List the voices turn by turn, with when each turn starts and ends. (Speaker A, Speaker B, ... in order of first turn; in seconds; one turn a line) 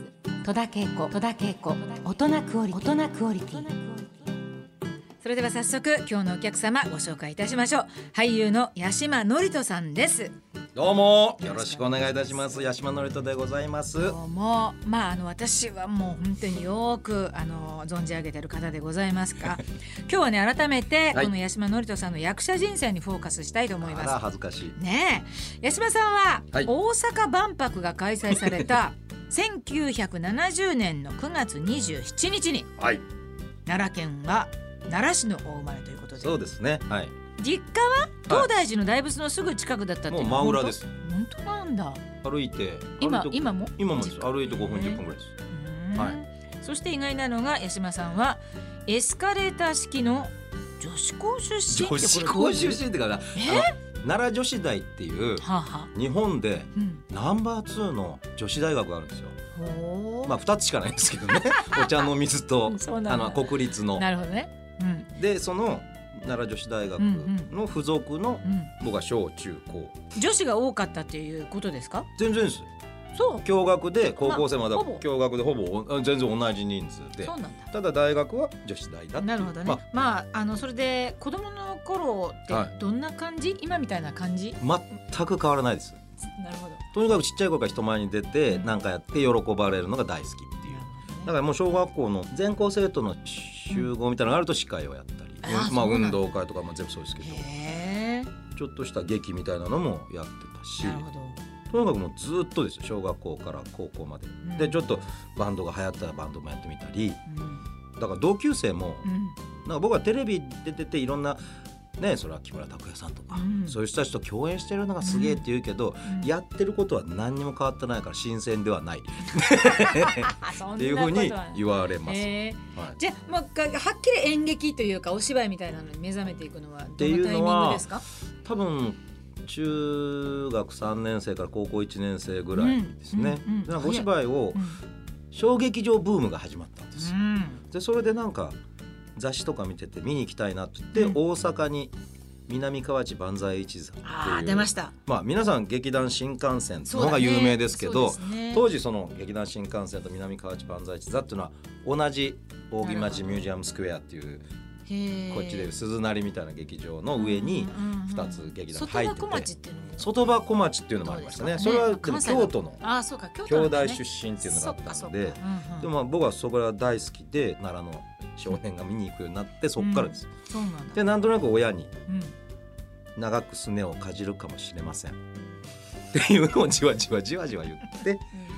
Speaker A: 0.4-4.1
Speaker B: 5.2-10.4
Speaker C: 10.8-14.2
Speaker B: 11.4-12.2
Speaker B: 14.0-24.2
Speaker C: 23.8-24.8
Speaker B: 24.8-32.7
Speaker C: 28.3-28.6
Speaker C: 32.8-33.0
Speaker B: 33.7-36.4
Speaker C: 36.2-37.2
Speaker B: 37.4-42.0
Speaker C: 38.2-38.5
Speaker C: 40.1-40.9
Speaker C: 42.1-45.4
Speaker B: 43.0-52.8
Speaker C: 51.7-59.4
Speaker B: 53.4-53.7
Speaker B: 55.4-55.9
Speaker B: 59.5-60.3
Speaker C: 60.2-64.1
Speaker B: 61.5-61.8
Speaker B: 62.7-65.1
Speaker C: 65.2-70.1
Speaker B: 67.0-67.5
Speaker B: 68.5-68.7
Speaker B: 70.2-72.1
Speaker C: 72.2-72.7
Speaker B: 73.1-73.5
Speaker C: 73.4-79.8
Speaker B: 74.2-75.0
Speaker B: 77.2-77.7
Speaker B: 79.2-84.6
Speaker C: 82.5-82.8
Speaker C: 84.6-86.2
Speaker B: 86.3-86.8
Speaker C: 86.9-97.5
Speaker B: 90.7-91.3
Speaker B: 95.4-96.2
Speaker B: 97.2-98.3
Speaker C: 98.5-101.1
Speaker B: 100.8-101.4
Speaker C: 101.7-107.2
Speaker B: 104.5-104.8
Speaker B: 107.3-107.7
Speaker C: 108.0-109.1
Speaker B: 109.0-109.4
Speaker C: 109.6-111.4
Speaker C: 112.0-123.0
Speaker B: 113.3-113.8
Speaker B: 115.0-115.4
Speaker B: 119.8-128.0
Speaker C: 127.0-134.6
Speaker B: 132.6-134.8
Speaker C: 135.3-138.6
Speaker B: 137.0-137.6
Speaker C: 139.2-141.9
Speaker C: 142.5-154.5
Speaker B: 144.0-144.9
Speaker B: 146.9-148.7
Speaker B: 152.8-153.5
Speaker B: 154.9-155.7
Speaker C: 155.3-162.8
Speaker B: 157.1-160.1
Speaker B: 161.0-165.9
Speaker C: 163.4-170.4
Speaker B: 169.8-171.0
Speaker C: 170.9-171.9
Speaker B: 172.1-172.4
Speaker C: 173.2-175.2
Speaker C: 176.1-178.3